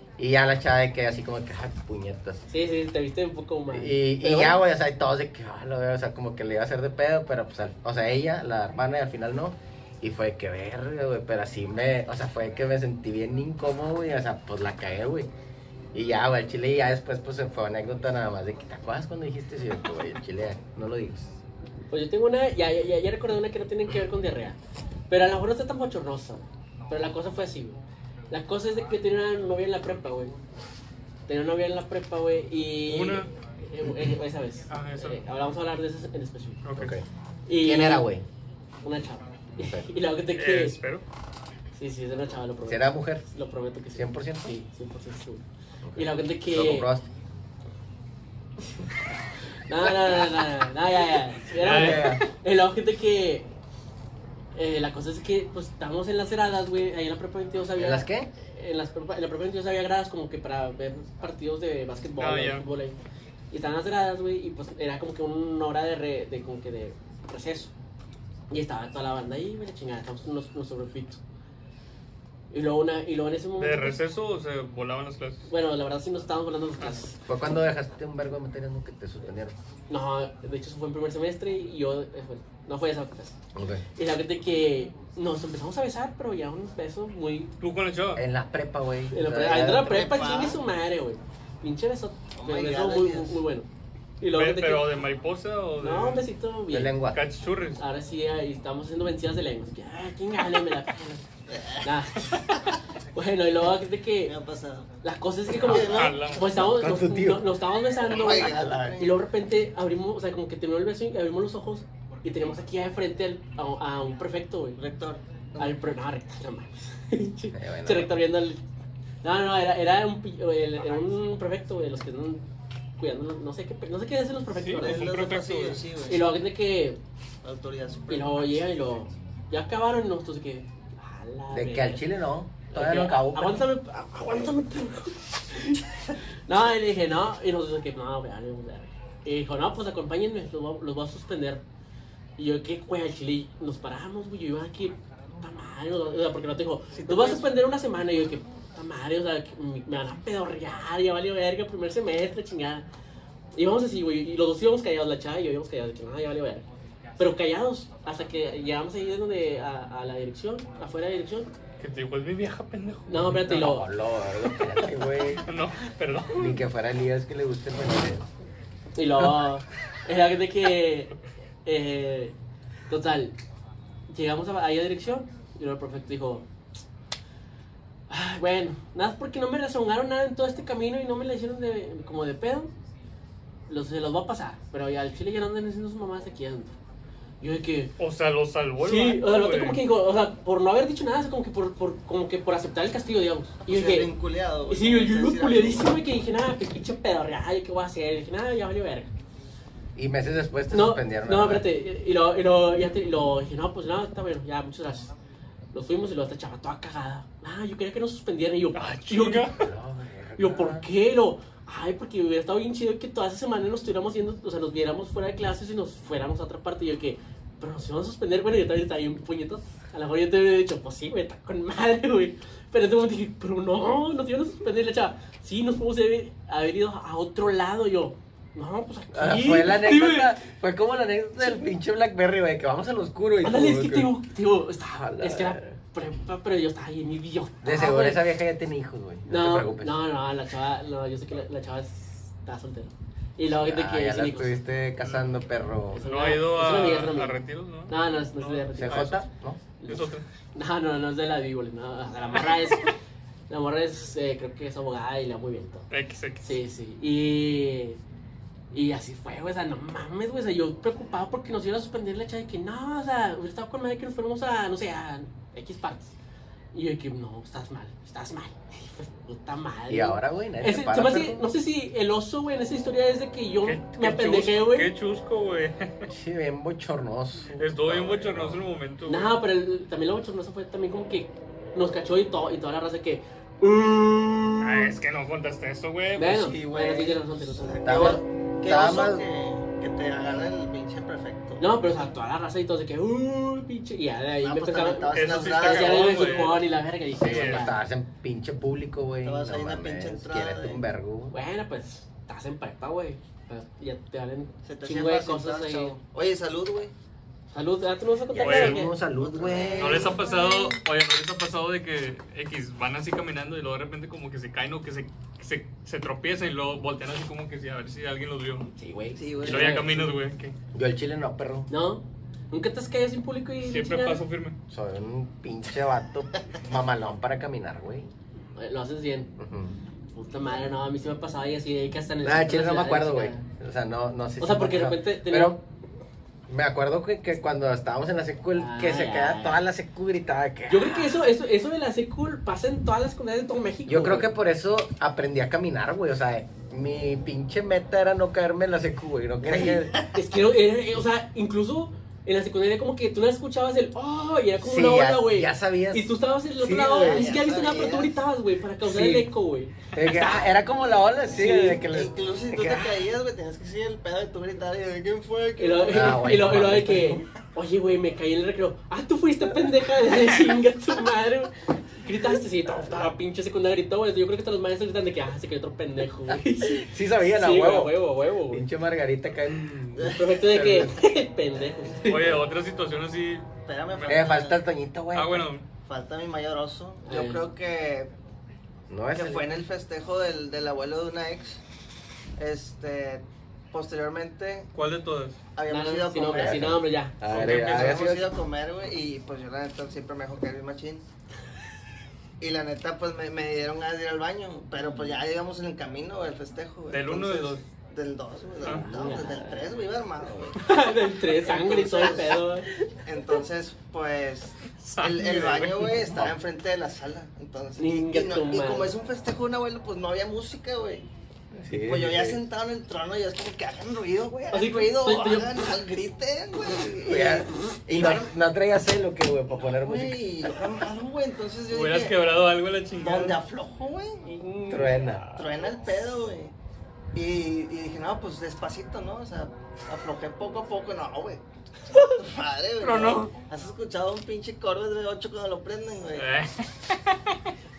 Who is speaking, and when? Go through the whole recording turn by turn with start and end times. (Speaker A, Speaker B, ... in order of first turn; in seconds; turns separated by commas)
Speaker A: 0.2-2.4, Speaker B: 2.5-4.6, Speaker A: 3.7-15.3, Speaker A: 15.9-21.4, Speaker B: 21.9-24.6, Speaker B: 25.1-27.8, Speaker B: 28.3-30.3, Speaker B: 31.3-36.6, Speaker C: 32.9-33.3, Speaker C: 34.7-35.2, Speaker C: 36.6-36.9, Speaker A: 36.8-37.0, Speaker B: 37.5-38.1, Speaker A: 37.6-38.2, Speaker B: 38.8-40.8, Speaker A: 39.6-39.9, Speaker C: 40.3-41.0, Speaker B: 41.8-45.4, Speaker A: 42.6-43.2, Speaker A: 43.9-44.5, Speaker A: 45.9-47.0, Speaker B: 45.9-46.9, Speaker B: 49.7-53.5, Speaker C: 51.5-52.2, Speaker A: 51.6-52.2, Speaker B: 54.5-63.0, Speaker A: 57.8-58.3, Speaker C: 62.2-62.6, Speaker B: 63.5-67.7, Speaker B: 68.5-71.2, Speaker B: 72.5-74.0, Speaker C: 73.6-75.5, Speaker B: 75.5-77.2, Speaker A: 77.3-79.5, Speaker B: 79.9-83.4, Speaker A: 83.5-83.8, Speaker B: 84.0-87.5, Speaker C: 87.6-88.2, Speaker A: 88.1-90.1, Speaker B: 89.1-93.7, Speaker D: 89.7-90.6, Speaker D: 92.3-93.4, Speaker B: 94.2-94.9, Speaker C: 94.3-96.2, Speaker B: 95.8-97.0, Speaker A: 96.7-97.2, Speaker C: 97.1-97.8, Speaker B: 97.8-101.2, Speaker D: 101.5-101.9, Speaker B: 101.8-104.3, Speaker D: 104.2-104.9, Speaker B: 105.0-114.8, Speaker D: 105.5-106.4, Speaker C: 105.7-106.4, Speaker A: 106.4-107.5, Speaker D: 108.0-109.2, Speaker A: 108.2-109.0, Speaker D: 114.8-115.8, Speaker B: 115.6-118.6, Speaker A: 117.5-118.1, Speaker B: 119.2-122.4, Speaker B: 123.0-125.2, Speaker C: 124.5-125.8, Speaker D: 124.8-126.3, Speaker B: 126.1-127.0, Speaker D: 127.4-128.6, Speaker B: 128.1-132.0, Speaker A: 131.5-133.7, Speaker B: 132.7-141.6, Speaker B: 142.4-152.8, Speaker D: 146.9-147.5, Speaker B: 153.5-156.7, Speaker B: 157.2-161.5, Speaker C: 161.8-163.4, Speaker B: 163.1-163.9, Speaker A: 163.3-165.4, Speaker C: 165.4-166.6, Speaker A: 166.3-168.3, Speaker B: 168.9-172.3, Speaker B: 172.9-173.3, Speaker B: 174.1-176.4, Speaker B: 178.1-182.7, Speaker B: 183.7-186.7, Speaker B: 187.4-187.9, Speaker C: 188.0-189.8, Speaker B: 188.8-194.1, Speaker D: 193.6-195.9, Speaker B: 194.7-199.1, Speaker A: 199.9-201.7, Speaker B: 200.7-205.1, Speaker B: 205.7-209.5, Speaker C: 208.7-209.7, Speaker A: 209.6-210.9, Speaker B: 210.4-230.3, Speaker A: 229.1-234.1, Speaker B: 233.4-238.2, Speaker A: 234.9-235.8, Speaker A: 237.6-240.0, Speaker B: 239.3-244.6, Speaker A: 243.5-246.1, Speaker B: 245.9-247.3, Speaker C: 246.0-249.2, Speaker B: 247.9-249.2, Speaker A: 248.8-249.6, Speaker B: 249.8-252.9, Speaker C: 249.9-250.2, Speaker B: 253.5-255.9, Speaker C: 255.9-256.6, Speaker B: 256.4-258.0, Speaker B: 258.7-266.1, Speaker B: 266.7-274.9, Speaker A: 269.9-271.5, Speaker C: 273.6-276.1, Speaker A: 276.1-278.7, Speaker C: 277.6-279.3, Speaker B: 279.1-284.9, Speaker C: 284.6-286.5, Speaker B: 286.1-288.2, Speaker D: 286.3-291.6, Speaker A: 287.8-289.2, Speaker B: 291.6-297.8, Speaker D: 294.4-296.6, Speaker C: 295.1-296.6, Speaker A: 297.2-301.3, Speaker C: 297.2-297.7, Speaker D: 299.2-300.8, Speaker B: 301.3-305.9, Speaker D: 304.6-306.9, Speaker B: 307.5-308.9, Speaker A: 308.3-310.2, Speaker C: 308.4-308.9, Speaker D: 309.1-310.8, Speaker C: 309.8-318.7, Speaker B: 318.8-319.9, Speaker D: 319.1-320.2, Speaker C: 319.4-320.6, Speaker A: 320.7-321.7, Speaker B: 321.7-324.2, Speaker C: 323.6-324.6, Speaker A: 324.7-328.1, Speaker B: 328.6-329.3, Speaker A: 329.4-329.7, Speaker B: 330.1-333.4, Speaker A: 332.2-335.6, Speaker B: 334.4-335.6, Speaker A: 336.5-341.2, Speaker B: 338.6-339.6, Speaker B: 340.7-344.3, Speaker A: 343.9-350.0, Speaker B: 349.5-360.5, Speaker D: 349.5-350.2, Speaker A: 354.6-357.4, Speaker D: 356.9-358.2, Speaker A: 358.8-359.3, Speaker A: 359.9-363.0, Speaker B: 361.3-361.8, Speaker D: 361.5-366.3, Speaker B: 365.6-378.6, Speaker A: 365.9-367.2, Speaker A: 376.3-381.0, Speaker D: 380.0-380.9, Speaker B: 380.1-382.4, Speaker C: 382.0-384.2, Speaker D: 383.6-384.6, Speaker A: 384.1-385.5, Speaker C: 385.1-385.6, Speaker D: 385.8-388.1, Speaker B: 387.1-387.5, Speaker A: 388.9-389.5, Speaker D: 389.1-391.6, Speaker D: 392.4-394.7, Speaker C: 394.7-395.4, Speaker D: 395.5-396.8, Speaker B: 395.7-397.2, Speaker A: 396.3-398.3, Speaker C: 397.3-398.1, Speaker D: 397.3-401.0, Speaker D: 402.4-412.5, Speaker C: 406.9-407.6, Speaker B: 408.7-409.7, Speaker B: 410.6-412.7, Speaker D: 413.0-421.1, Speaker C: 414.8-416.0, Speaker A: 416.0-416.3, Speaker B: 417.8-418.9, Speaker A: 421.5-422.4, Speaker D: 421.8-428.3, Speaker B: 424.5-425.5, Speaker A: 427.0-430.2, Speaker D: 429.7-432.1, Speaker C: 431.7-433.4, Speaker D: 433.0-434.2, Speaker B: 434.2-435.7, Speaker A: 434.7-435.2, Speaker D: 435.3-436.5, Speaker D: 437.1-441.4, Speaker B: 441.9-442.2, Speaker D: 442.0-446.3, Speaker C: 442.8-443.3, Speaker C: 446.1-447.3